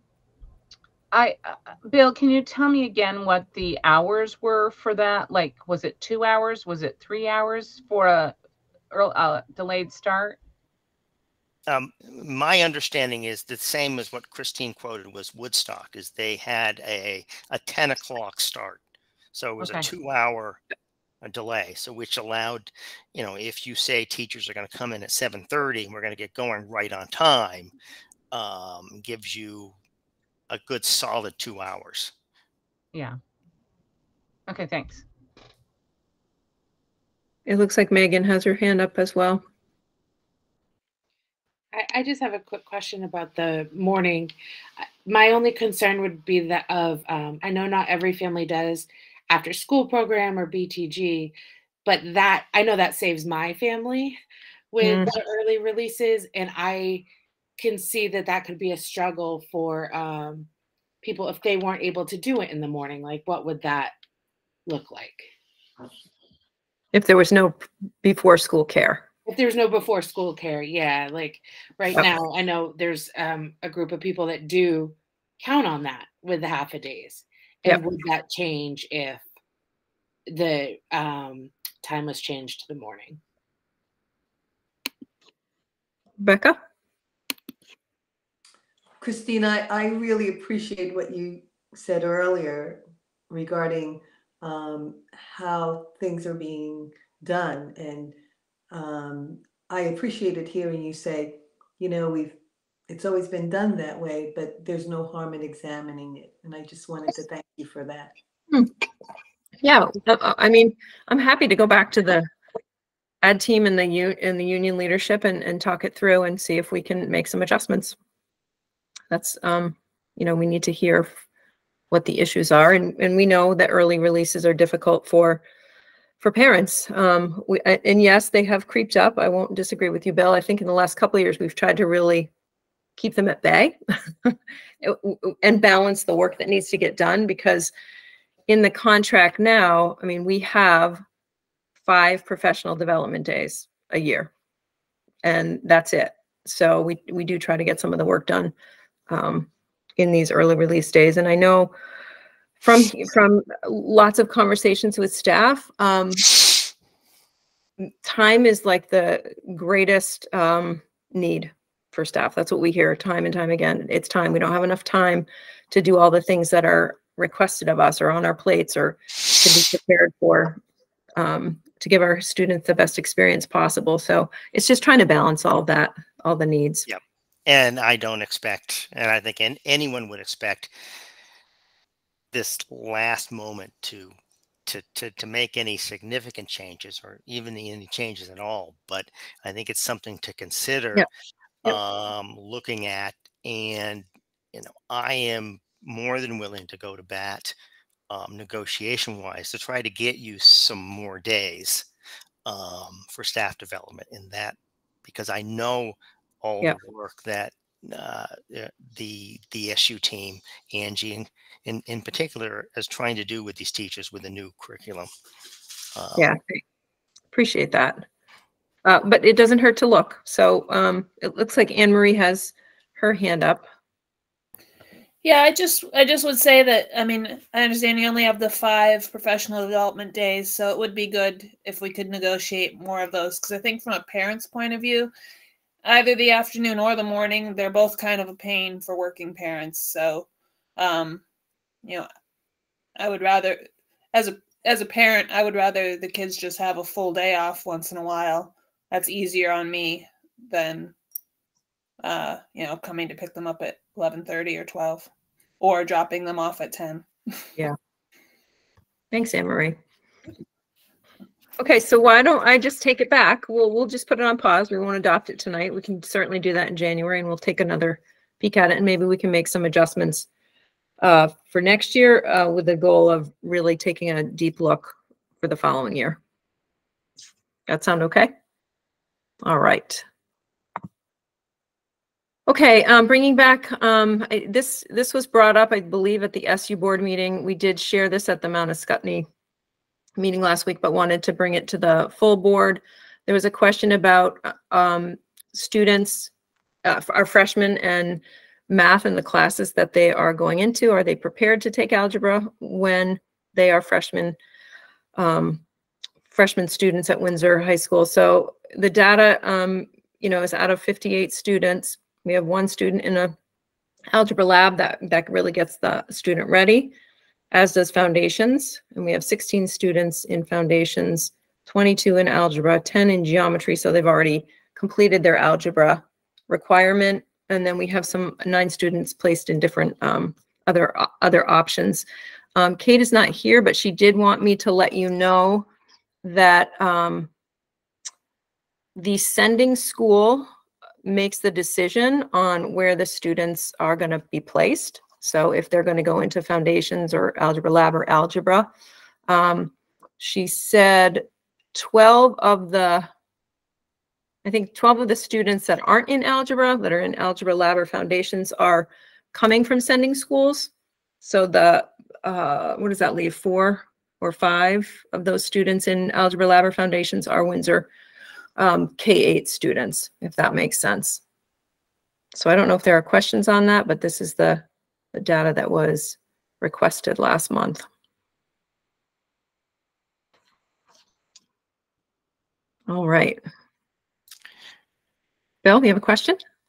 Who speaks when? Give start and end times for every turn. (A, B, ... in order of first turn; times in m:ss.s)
0:01.1-0:08.3 A
0:08.9-0:10.4 A
0:11.7-0:18.8 B
0:19.3-0:20.6 B
0:19.6-0:19.9 A
0:21.2-0:27.7 B
0:28.3-0:29.8 B
0:30.5-0:32.1 B
0:34.5-0:35.0 A
0:37.4-0:39.4 C
0:41.7-0:54.2 D
0:54.7-0:57.0 D
0:54.8-0:55.1 C
0:57.6-1:00.5 D
1:01.0-1:03.9 D
1:04.6-1:05.3 D
1:06.9-1:09.0 C
1:09.2-1:19.2 D
1:20.3-1:23.2 D
1:26.2-1:26.6 C
1:29.0-1:38.2 E
1:38.7-1:48.1 E
1:49.6-1:52.3 C
1:53.2-1:58.0 C
1:59.1-2:01.2 C
2:01.9-2:05.4 C
2:06.2-2:12.3 C
2:13.0-2:17.7 C
2:18.5-2:21.0 C
2:21.8-2:24.3 C
2:25.2-2:28.5 C
2:29.1-2:31.7 C
2:32.6-2:36.3 C
2:37.8-2:50.6 C
2:51.2-2:56.9 C
2:56.9-3:00.7 B
3:02.3-3:04.1 B
3:04.7-3:11.0 B
3:11.6-3:17.5 B
3:18.1-3:21.8 B
3:22.4-3:35.1 B
3:36.0-3:36.3 B
3:36.2-3:36.6 C
3:37.3-3:38.0 C
3:38.8-3:43.7 C
3:45.2-3:55.1 F
3:55.8-4:01.2 F
4:03.0-4:10.9 F
4:12.0-4:15.1 F
4:15.6-4:17.1 F
4:19.1-4:19.8 C
4:21.6-4:30.3 C
4:31.0-4:36.2 C
4:37.7-4:38.3 C
4:39.4-4:40.0 C
4:42.5-4:49.3 C
4:50.2-4:56.3 C
4:56.8-5:04.4 C
5:05.2-5:05.6 C
5:06.3-5:13.3 C
5:14.1-5:16.9 C
5:17.5-5:35.7 C
5:36.2-5:37.3 C
5:39.0-5:40.5 C
5:41.0-5:48.7 C
5:49.3-5:53.1 C
5:54.4-6:00.7 C
6:01.2-6:07.9 C
6:08.6-6:11.2 C
6:12.3-6:17.8 C
6:22.9-6:23.4 C
6:25.6-6:26.4 C